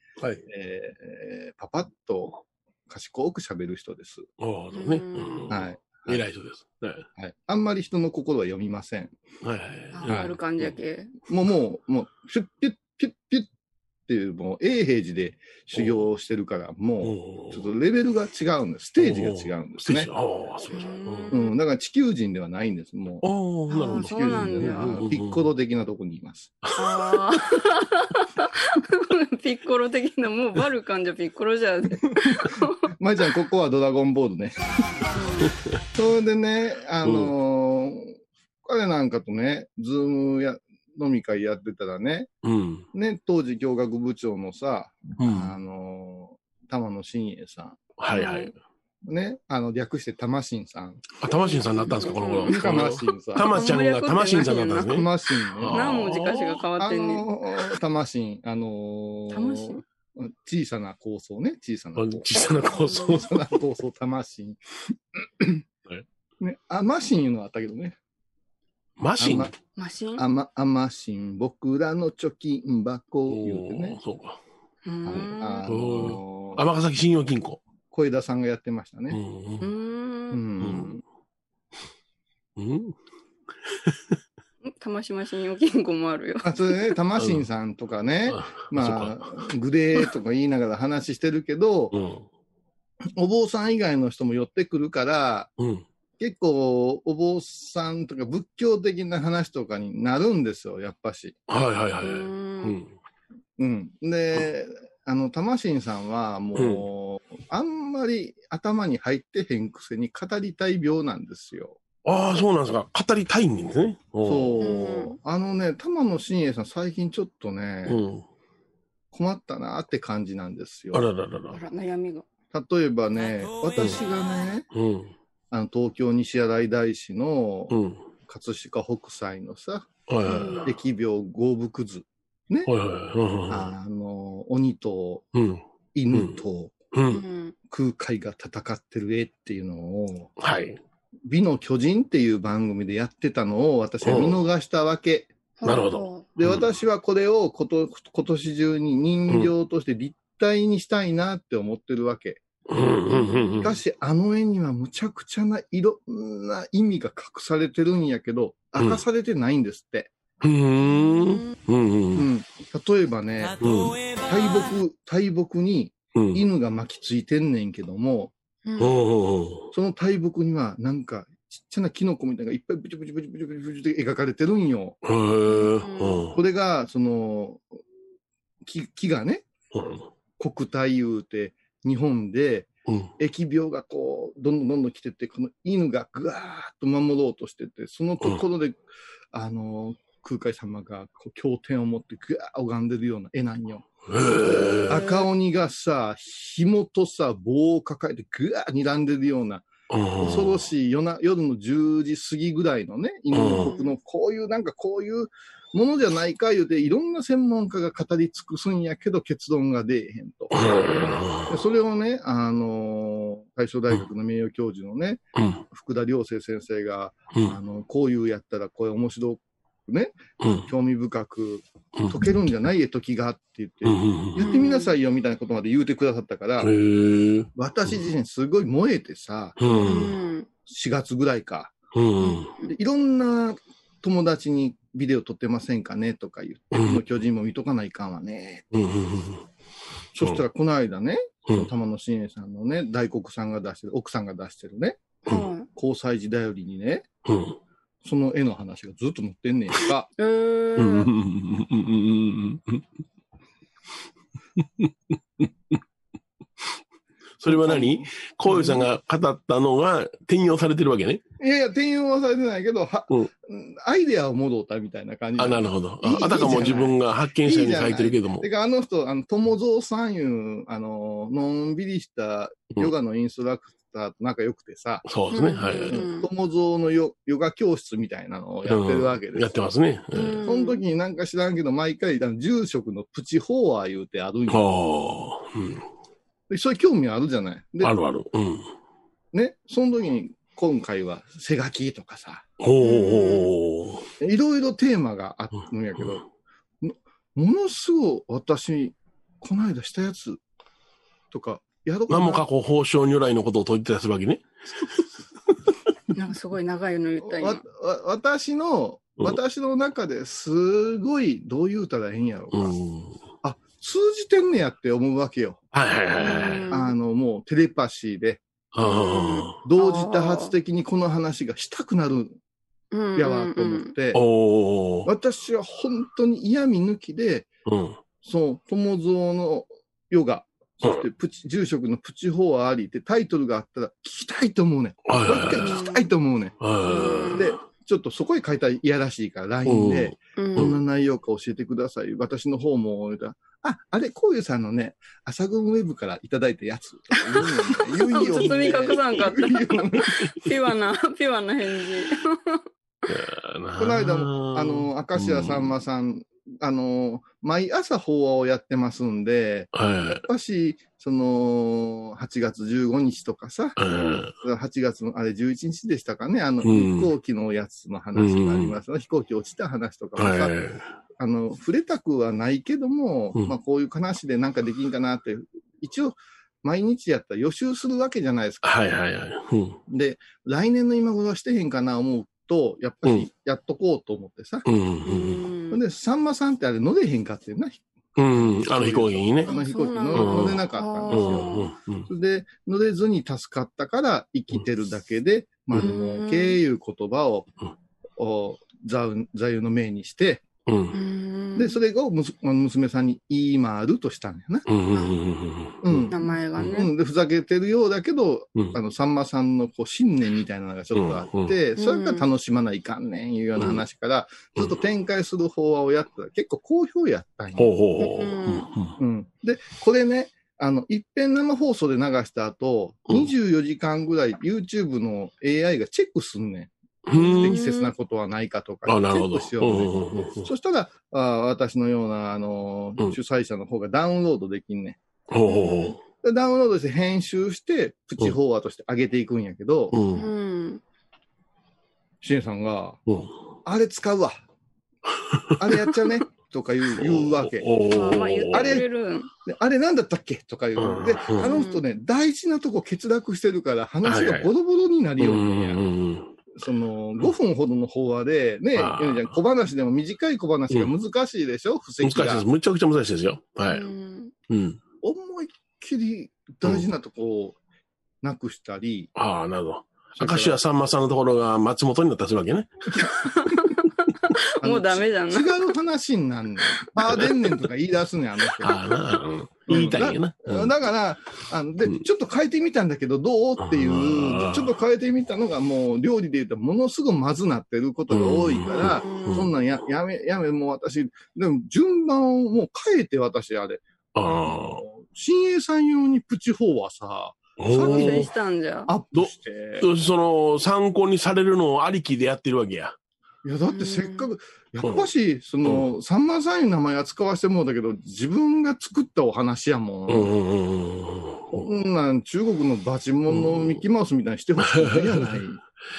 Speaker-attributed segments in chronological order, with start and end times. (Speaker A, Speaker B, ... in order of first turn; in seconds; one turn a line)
Speaker A: 0.2-0.4
Speaker B: 0.5-4.2
Speaker A: 4.4-7.0
Speaker C: 4.7-5.3
Speaker B: 5.5-6.2
Speaker B: 7.2-9.1
Speaker A: 9.4-10.7
Speaker C: 9.9-11.1
Speaker B: 10.1-10.3
Speaker B: 11.3-13.5
Speaker B: 14.1-20.1
Speaker A: 15.7-16.0
Speaker A: 17.0-17.6
Speaker A: 19.0-21.3
Speaker C: 20.7-21.5
Speaker B: 21.3-23.2
Speaker A: 23.2-25.4
Speaker C: 23.7-25.0
Speaker B: 23.9-26.5
Speaker A: 26.6-27.0
Speaker C: 26.7-32.9
Speaker B: 32.8-34.5
Speaker C: 35.1-35.5
Speaker A: 35.5-35.7
Speaker B: 35.9-42.3
Speaker A: 37.0-37.3
Speaker A: 42.4-42.9
Speaker B: 42.9-47.8
Speaker A: 45.2-45.5
Speaker A: 48.0-48.5
Speaker C: 48.1-48.5
Speaker B: 49.0-51.0
Speaker A: 51.2-56.6
Speaker C: 51.5-52.8
Speaker B: 52.5-53.6
Speaker C: 53.4-55.0
Speaker B: 54.9-55.9
Speaker C: 55.7-57.3
Speaker B: 56.8-65.6
Speaker C: 59.3-59.8
Speaker A: 62.0-63.4
Speaker C: 62.6-63.3
Speaker B: 66.4-68.0
Speaker A: 69.0-69.5
Speaker B: 69.2-69.5
Speaker C: 69.8-70.2
Speaker B: 70.2-74.0
Speaker A: 73.3-74.4
Speaker C: 74.8-75.7
Speaker B: 75.0-76.6
Speaker A: 75.7-77.6
Speaker B: 77.9-79.2
Speaker A: 79.1-79.7
Speaker C: 79.6-80.4
Speaker B: 80.3-81.0
Speaker A: 80.6-80.9
Speaker A: 82.6-83.0
Speaker A: 83.7-84.2
Speaker C: 84.6-86.8
Speaker B: 86.4-92.0
Speaker A: 87.2-87.4
Speaker A: 88.3-89.4
Speaker A: 91.9-92.2
Speaker B: 93.2-95.5
Speaker A: 95.6-95.8
Speaker B: 96.2-101.3
Speaker A: 101.5-102.9
Speaker C: 102.0-102.7
Speaker B: 103.6-111.8
Speaker A: 106.5-106.8
Speaker A: 112.0-114.5
Speaker B: 114.2-118.0
Speaker C: 114.6-115.2
Speaker A: 117.8-118.2
Speaker B: 119.1-121.1
Speaker A: 120.9-121.6
Speaker C: 121.5-122.2
Speaker B: 122.5-124.7
Speaker A: 124.7-125.1
Speaker B: 125.5-127.8
Speaker A: 127.7-128.0
Speaker B: 128.3-129.9
Speaker A: 130.1-130.7
Speaker C: 130.3-130.7
Speaker B: 130.6-132.7
Speaker A: 132.7-133.7
Speaker B: 133.5-135.2
Speaker A: 135.3-136.4
Speaker B: 135.9-136.7
Speaker A: 136.9-137.2
Speaker C: 137.1-137.5
Speaker B: 137.7-140.3
Speaker A: 140.4-140.8
Speaker B: 141.3-145.3
Speaker A: 144.0-144.4
Speaker C: 145.6-146.3
Speaker A: 145.6-146.6
Speaker B: 146.4-152.4
Speaker A: 152.7-153.7
Speaker C: 153.1-153.7
Speaker B: 153.6-160.1
Speaker A: 160.4-162.3
Speaker C: 160.8-161.5
Speaker B: 162.1-163.6
Speaker A: 163.6-164.0
Speaker B: 164.2-168.3
Speaker A: 166.1-166.4
Speaker C: 168.7-169.0
Speaker A: 168.8-169.7
Speaker B: 169.7-175.0
Speaker A: 175.0-176.4
Speaker C: 175.5-176.3
Speaker B: 176.3-177.6
Speaker B: 178.6-179.4
Speaker A: 179.7-180.1
Speaker B: 180.4-188.8
Speaker B: 189.3-193.8
Speaker A: 194.1-195.1
Speaker B: 194.8-199.7
Speaker A: 199.9-200.6
Speaker B: 200.2-226.7
Speaker A: 203.3-203.7
Speaker C: 203.4-203.9
Speaker A: 210.5-211.5
Speaker A: 215.3-215.6
Speaker A: 220.4-220.7
Speaker A: 223.8-224.5
Speaker C: 224.4-224.9
Speaker A: 226.6-228.0
Speaker B: 227.5-230.0
Speaker A: 229.6-230.2
Speaker C: 229.8-230.5
Speaker B: 230.7-231.7
Speaker A: 231.9-232.5
Speaker C: 232.2-232.7
Speaker B: 232.6-238.6
Speaker A: 236.7-237.0
Speaker A: 238.7-239.4
Speaker B: 240.1-245.1
Speaker C: 245.2-245.7
Speaker B: 245.7-247.1
Speaker A: 247.2-247.6
Speaker B: 248.0-250.1
Speaker C: 250.2-251.1
Speaker A: 250.8-252.8
Speaker A: 254.6-255.5
Speaker A: 257.4-261.2
Speaker B: 257.4-258.9
Speaker B: 261.4-275.1
Speaker A: 265.4-268.5
Speaker A: 275.0-276.0
Speaker C: 275.3-276.3
Speaker B: 275.9-279.5
Speaker A: 278.6-280.4
Speaker C: 280.1-280.8
Speaker B: 280.4-284.7
Speaker A: 284.5-285.9
Speaker B: 286.5-287.9
Speaker A: 287.8-288.7
Speaker B: 289.3-292.4
Speaker A: 292.6-294.1
Speaker C: 292.8-293.5
Speaker B: 294.2-296.2
Speaker B: 296.8-300.4
Speaker B: 301.3-302.4
Speaker A: 302.1-304.4
Speaker C: 306.1-307.6
Speaker B: 307.2-312.7
Speaker A: 312.5-313.2
Speaker B: 313.4-315.6
Speaker A: 315.7-316.7
Speaker C: 316.2-316.9
Speaker B: 316.7-318.4
Speaker A: 318.7-319.6
Speaker C: 318.8-320.5
Speaker B: 319.6-322.4
Speaker C: 322.9-323.9
Speaker B: 323.1-324.2
Speaker A: 324.1-325.1
Speaker B: 325.0-327.5
Speaker A: 327.6-328.0
Speaker B: 328.2-336.6
Speaker A: 335.1-335.7
Speaker C: 335.6-336.1
Speaker A: 336.6-337.6
Speaker C: 336.9-337.4
Speaker B: 337.3-350.2
Speaker A: 339.6-340.8
Speaker C: 340.4-340.8
Speaker C: 347.8-349.8
Speaker A: 348.0-349.0
Speaker C: 350.4-352.6
Speaker A: 353.1-355.7
Speaker B: 353.8-363.8
Speaker A: 359.7-360.2
Speaker A: 363.8-364.3
Speaker B: 364.4-370.5
Speaker A: 366.6-367.1
Speaker A: 368.1-368.7
Speaker A: 370.2-370.8
Speaker B: 371.2-378.6
Speaker A: 378.6-379.8
Speaker B: 379.9-384.7
Speaker A: 384.6-385.4
Speaker C: 385.0-385.8
Speaker B: 385.7-391.5
Speaker A: 388.1-389.5
Speaker C: 389.5-391.7
Speaker A: 390.1-392.1
Speaker B: 392.1-397.5
Speaker C: 395.7-396.6
Speaker B: 398.2-400.4
Speaker A: 400.6-400.9
Speaker C: 400.9-401.8
Speaker B: 401.6-404.7
Speaker A: 404.6-406.8
Speaker B: 405.8-417.7
Speaker C: 406.1-406.9
Speaker A: 410.9-411.5
Speaker C: 411.8-412.3
Speaker A: 417.6-419.0
Speaker C: 418.0-418.7
Speaker B: 419.0-426.7
Speaker A: 427.1-427.6
Speaker C: 427.2-427.9
Speaker B: 427.3-435.0
Speaker A: 428.9-430.5
Speaker A: 435.3-436.0
Speaker C: 435.4-435.9
Speaker B: 436.2-439.9
Speaker A: 439.9-440.3
Speaker C: 440.1-440.8
Speaker B: 442.2-443.0
Speaker A: 443.1-443.3
Speaker B: 443.6-444.4
Speaker B: 445.6-447.7
Speaker A: 447.0-448.8
Speaker C: 447.9-449.3
Speaker B: 448.5-448.8
Speaker B: 449.4-455.8
Speaker A: 450.8-451.5
Speaker C: 451.4-451.8
Speaker A: 454.0-454.5
Speaker A: 455.2-456.3
Speaker B: 456.5-462.4
Speaker A: 458.7-459.4
Speaker A: 462.0-463.9
Speaker C: 463.7-464.3
Speaker A: 464.5-464.8
Speaker B: 465.0-467.6
Speaker B: 468.2-469.1
Speaker A: 469.1-472.7
Speaker B: 470.1-470.6
Speaker C: 473.4-473.8
Speaker C: 474.6-475.6
Speaker B: 474.6-478.8
Speaker A: 477.0-477.5
Speaker A: 478.5-480.7
Speaker B: 479.7-498.3
Speaker A: 483.6-484.7
Speaker A: 488.1-489.5
Speaker C: 488.7-489.5
Speaker A: 494.1-494.8
Speaker A: 497.6-498.3
Speaker C: 497.8-498.9
Speaker B: 498.9-499.9
Speaker A: 499.1-502.9
Speaker B: 503.4-510.3
Speaker C: 503.7-504.3
Speaker A: 504.8-505.1
Speaker A: 510.1-511.7
Speaker B: 511.5-515.6
Speaker A: 513.3-513.8
Speaker A: 514.6-515.3